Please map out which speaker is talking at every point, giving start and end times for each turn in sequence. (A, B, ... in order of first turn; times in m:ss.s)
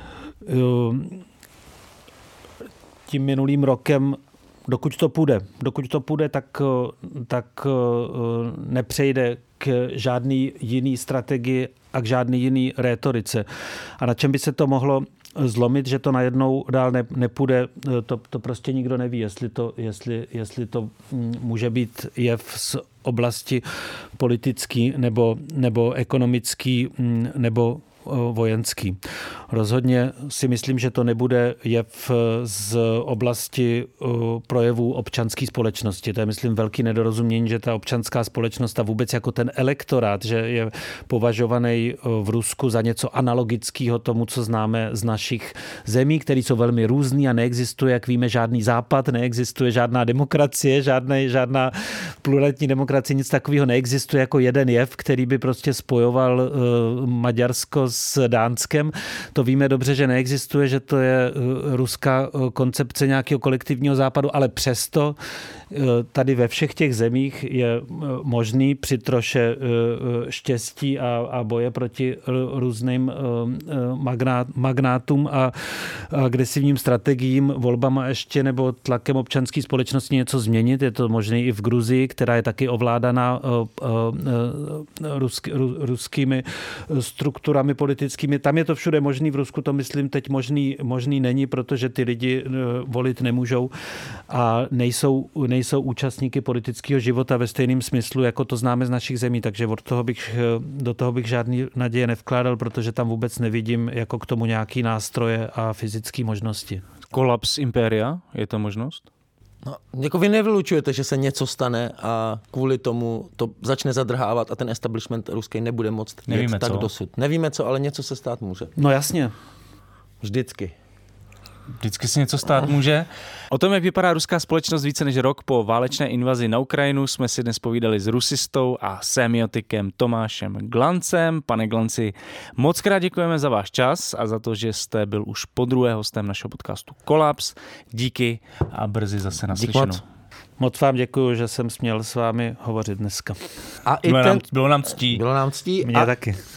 0:00.4-0:01.2 A
0:03.1-0:13.4 A
0:14.0-0:23.6 A
0:24.2-0:29.0 A
0:29.5-1:05.2 A
1:05.7-1:33.7 A
1:34.3-1:46.8 A
1:47.1-1:49.0 B
1:49.6-1:58.7 C
1:56.3-1:56.9 B
1:58.8-1:59.3 A
2:00.2-2:00.8 C
2:01.8-2:20.0 B
2:19.6-2:20.0 C
2:20.6-2:23.4 A
2:23.8-2:24.4 C
2:24.0-2:25.2 B
2:25.0-2:26.1 C
2:25.8-2:26.4 A